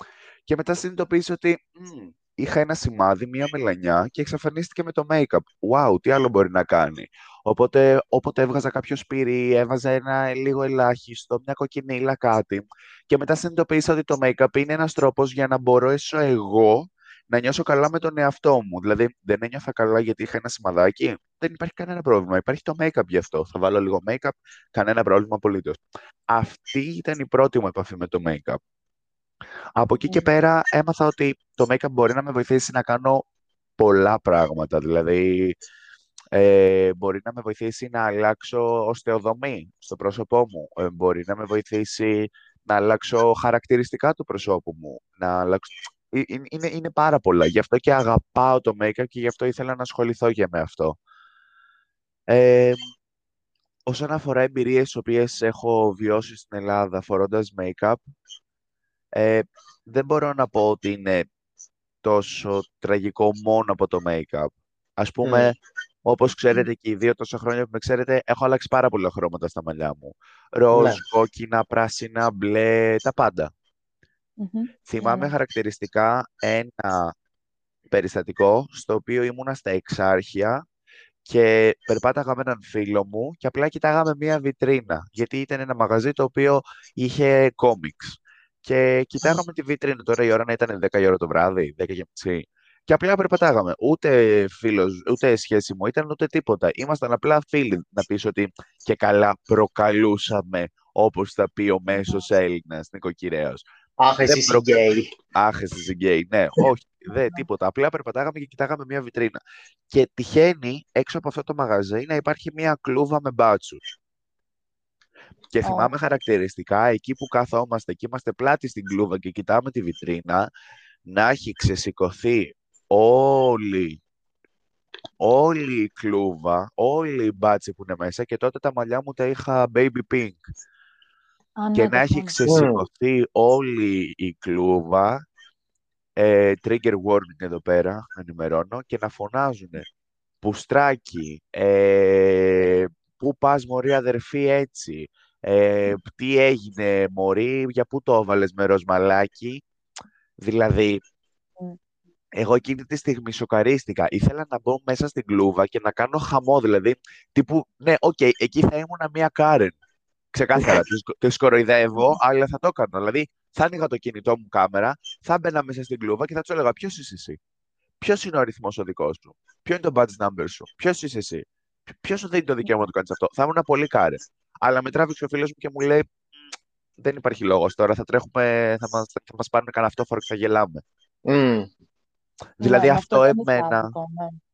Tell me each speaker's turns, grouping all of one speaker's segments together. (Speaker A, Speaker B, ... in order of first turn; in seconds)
Speaker A: 0.5-28.6, 29.8-33.3, 33.8-35.6, 36.3-51.0, 52.3-52.8, 53.9-58.0, 59.1-61.3, 62.0-65.5, 66.1-73.5, 74.9-77.1, 77.9-80.6, 81.3-103.7, 104.3-104.7, 105.3-113.8, 115.5-120.5, 121.1-124.0, 125.2-130.4, 131.7-135.2, 136.2-139.9, 140.4-149.6, 150.4-151.0, 152.3-159.8, 160.3-167.4, 168.0-176.1, 177.0-180.8, 182.6-183.9
Speaker B: 65.2-65.5, 70.7-71.0, 104.0-105.1, 132.5-132.8, 181.3-181.7
Speaker C: 74.4-75.3, 101.9-102.2, 115.6-115.9, 131.6-132.4, 182.6-184.4